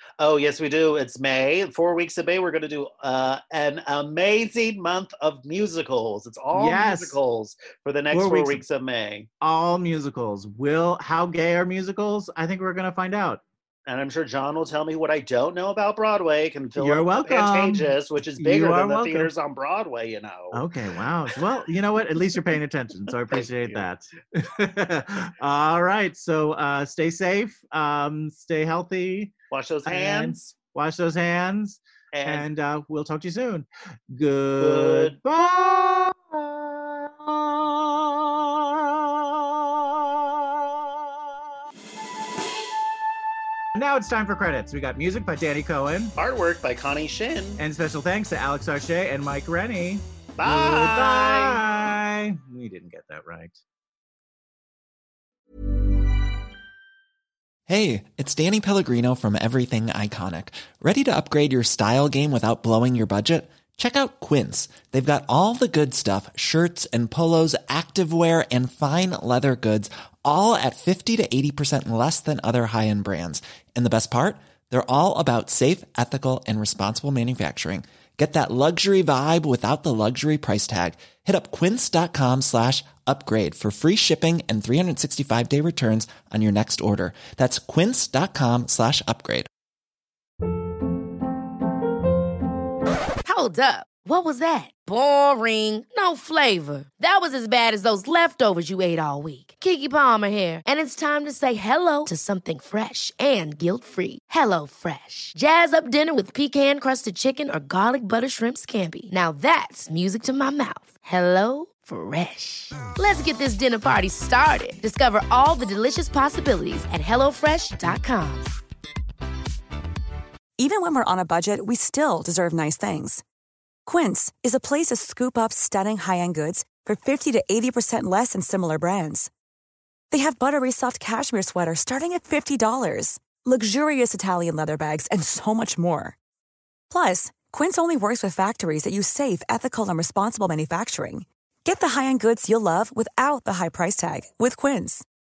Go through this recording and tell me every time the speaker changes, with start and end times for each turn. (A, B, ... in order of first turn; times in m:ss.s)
0:00.2-0:09.3 A
0:06.5-0:07.2 B
0:08.1-0:08.6 B
0:09.4-0:13.4 B
0:13.9-0:20.6 A
0:16.8-0:19.3 B
0:20.5-0:29.3 B
0:23.3-0:23.9 A
0:29.5-0:30.5 A
0:29.9-0:41.1 B
0:32.1-0:32.5 A
0:34.6-0:35.2 A
0:43.8-0:46.2 B
0:46.2-0:47.6 A
0:47.6-0:53.6 B
0:50.4-0:51.6 A
0:57.7-1:29.5 C
1:33.2-1:58.5 D
2:00.6-2:03.2 E
2:03.9-2:09.3 E
2:10.1-2:16.2 E
2:16.9-2:25.1 E